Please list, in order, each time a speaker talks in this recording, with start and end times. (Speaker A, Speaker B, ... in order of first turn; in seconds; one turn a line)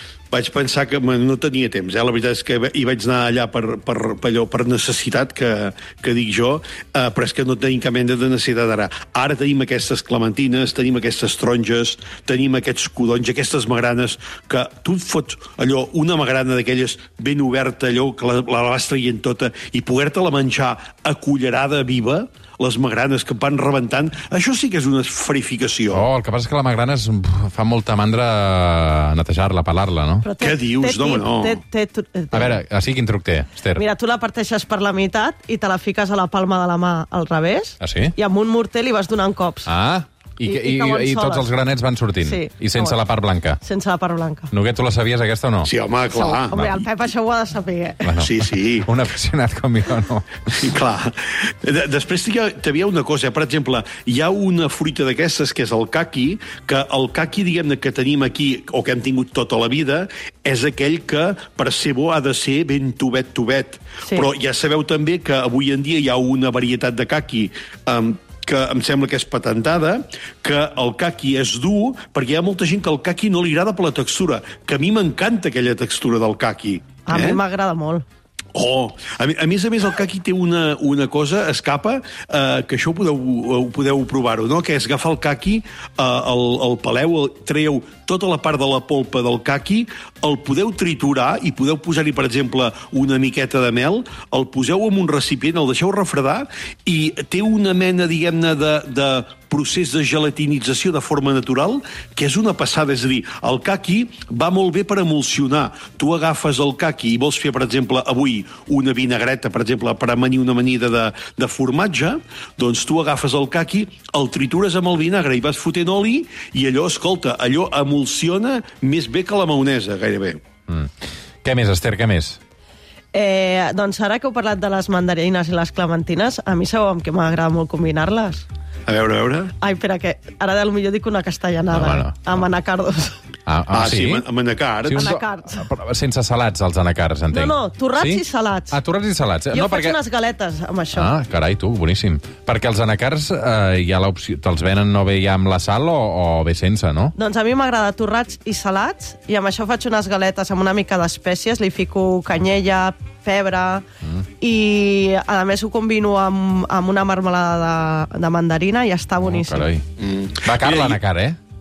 Speaker A: 0.3-26.1
Speaker B: 25.9-30.3
Speaker C: 30.2-32.6
Speaker A: 30.4-31.6
Speaker B: 32.3-33.8
Speaker C: 33.7-39.7
Speaker B: 37.8-38.1
Speaker B: 39.7-43.6
Speaker C: 40.4-41.5
Speaker C: 42.2-43.0
Speaker C: 43.6-44.5
Speaker B: 44.5-45.7
Speaker A: 45.6-46.6
Speaker C: 46.1-48.1
Speaker B: 48.0-50.7
Speaker A: 48.2-48.9
Speaker A: 50.6-77.4
Speaker C: 77.0-78.0
Speaker A: 78.5-120.4
Speaker B: 121.4-122.4
Speaker C: 123.1-128.4
Speaker A: 128.8-129.5
Speaker C: 129.6-133.2
Speaker B: 131.7-132.1
Speaker B: 133.5-134.2
Speaker A: 133.7-135.2
Speaker B: 134.8-140.0
Speaker C: 134.9-135.6
Speaker C: 137.3-138.8
Speaker C: 139.5-141.1
Speaker B: 140.9-147.1
Speaker C: 147.1-153.8
Speaker C: 154.4-159.7
Speaker B: 159.2-159.8
Speaker A: 160.0-161.0
Speaker B: 160.4-161.4